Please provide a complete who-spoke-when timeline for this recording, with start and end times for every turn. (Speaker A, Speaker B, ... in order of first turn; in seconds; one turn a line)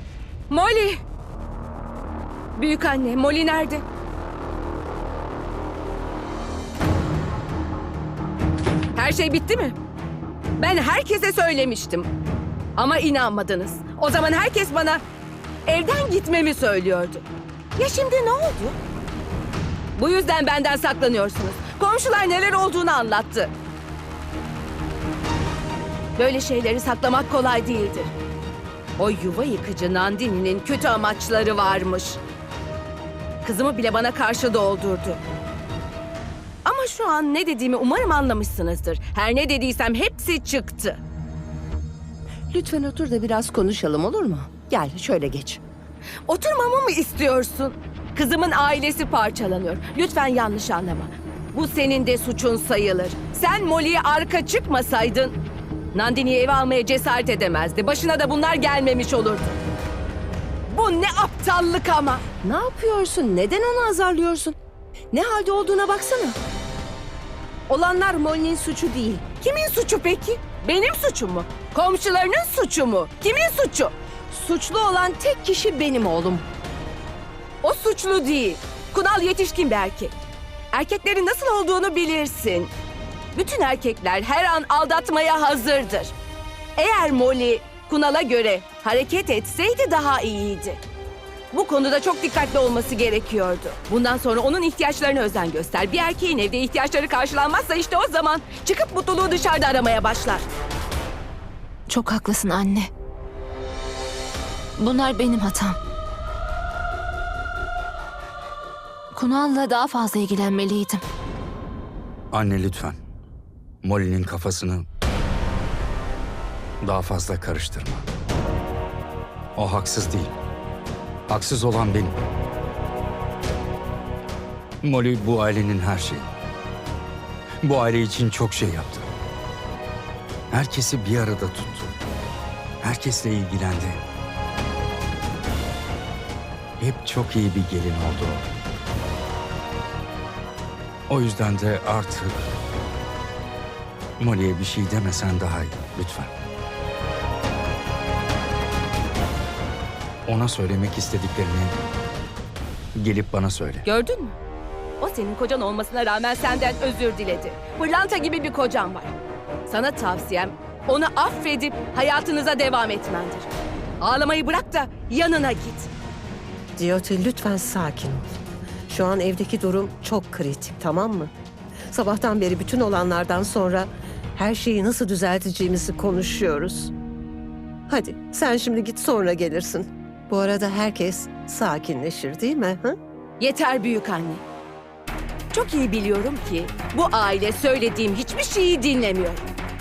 Speaker A: 0.5-1.0
Speaker A: 2.6-3.8
Speaker A: 8.9-9.8
Speaker A: 10.6-12.1
Speaker A: 12.8-15.0
Speaker A: 15.7-17.2
Speaker A: 17.8-18.8
Speaker A: 20.0-23.5
Speaker A: 26.2-28.1
Speaker A: 29.0-32.2
Speaker A: 33.4-35.2
Speaker A: 36.6-41.0
Speaker B: 42.5-45.6
Speaker A: 46.3-55.4
Speaker A: 55.9-59.6
Speaker A: 60.7-62.2
Speaker A: 67.7-68.2
Speaker A: 69.3-73.9
Speaker A: 77.6-80.2
Speaker A: 80.7-82.7
Speaker A: 83.3-86.1
Speaker A: 86.8-90.8
Speaker A: 91.5-100.5
Speaker C: 101.9-102.9
Speaker C: 104.8-105.8
Speaker C: 109.1-111.0
Speaker D: 112.3-113.0
Speaker D: 113.8-114.8
Speaker D: 116.8-118.0
Speaker D: 119.6-120.3
Speaker D: 121.3-122.2
Speaker D: 124.8-126.3
Speaker D: 127.6-129.1
Speaker D: 130.5-131.9
Speaker D: 132.8-134.0
Speaker D: 136.8-138.5
Speaker D: 141.1-142.5
Speaker D: 144.2-146.3
Speaker D: 150.3-151.8
Speaker D: 153.0-153.8
Speaker A: 153.8-154.4
Speaker A: 155.0-159.1
Speaker A: 159.7-163.5
Speaker A: 164.0-165.9
Speaker E: 166.8-171.3
Speaker E: 171.9-176.9
Speaker E: 177.9-182.9
Speaker A: 183.4-184.4
Speaker A: 185.5-189.5